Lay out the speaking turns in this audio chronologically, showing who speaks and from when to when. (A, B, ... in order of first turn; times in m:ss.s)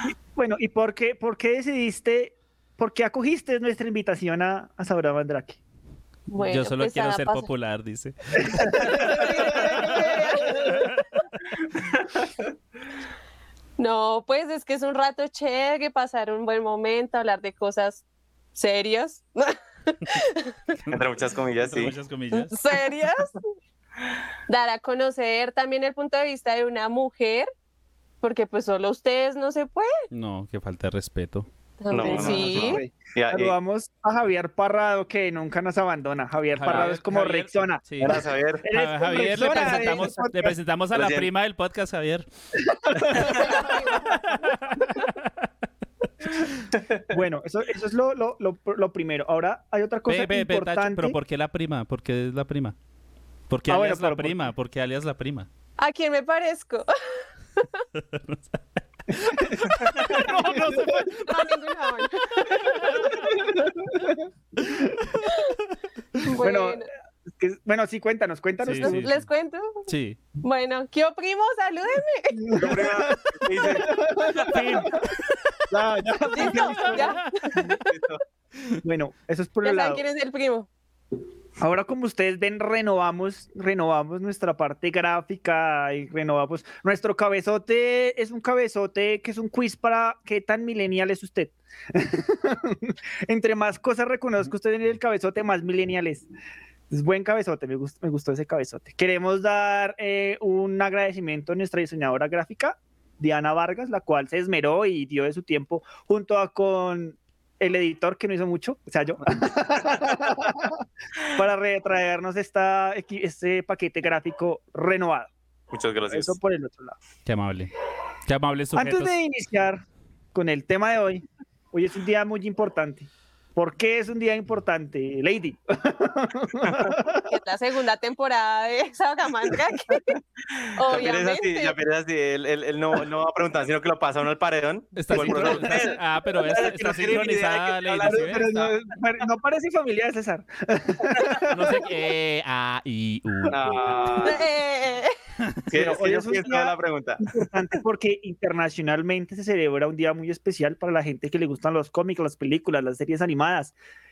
0:00.4-0:05.6 A
0:06.3-0:07.5 B
0:06.4-0:09.8 C
0:08.7-0:11.0 B
0:08.9-0:10.8 A
0:13.8-0:18.0 B
0:18.6-0:20.5 B
0:20.9-0:22.6 C
0:20.9-0:22.0 D
0:22.3-0:23.4 B
0:24.5-0:27.5 B
0:28.2-0:29.9 B
0:30.1-0:31.5 C
0:31.8-0:32.8 B
0:31.9-0:33.6 D
0:31.9-0:40.6 A
0:36.5-0:38.2 C
0:38.0-0:38.6 D
0:38.7-0:42.3 C
0:40.9-0:41.3 D
0:42.7-0:43.8 A
0:43.2-0:44.2 B
0:44.5-0:45.0 C
0:47.1-0:51.2 A
0:50.1-0:52.8 C
0:53.5-0:55.5 C
0:53.7-0:54.4 A
0:55.8-0:56.9 B
0:58.0-0:58.4 C
0:59.2-1:01.3 C
0:59.3-1:01.2 A
1:00.0-1:00.3 B
1:01.2-1:03.1 B
1:03.0-1:05.0 A
1:05.2-1:05.6 B
1:06.2-1:06.9 B
1:06.3-1:06.8 A
1:07.4-1:09.1 A
1:08.6-1:09.3 C
1:08.8-1:12.8 B
1:09.9-1:10.2 C
1:12.4-1:14.9 A
1:12.5-1:14.7 D
1:14.5-1:15.0 C
1:15.7-1:17.2 A
1:15.7-1:17.0 D
1:16.3-1:17.6 B
1:17.7-1:18.2 D
1:18.7-1:20.0 A
1:19.6-1:20.7 B
1:21.6-1:36.3 A
1:36.9-1:55.3 A
1:55.7-1:56.4 D
1:56.1-1:57.0 A
1:57.3-1:57.7 C
1:58.3-1:59.1 C
1:58.8-1:59.8 A
2:00.3-2:07.3 A
2:06.6-2:06.9 D
2:07.3-2:10.1 B
2:10.8-2:11.8 B
2:10.9-2:18.8 D
2:15.0-2:18.5 C
2:15.1-2:16.0 A
2:18.0-2:21.8 A
2:21.5-2:24.1 C
2:23.5-2:24.4 D
2:24.2-2:25.1 B
2:25.7-2:27.6 D
2:25.7-2:33.8 A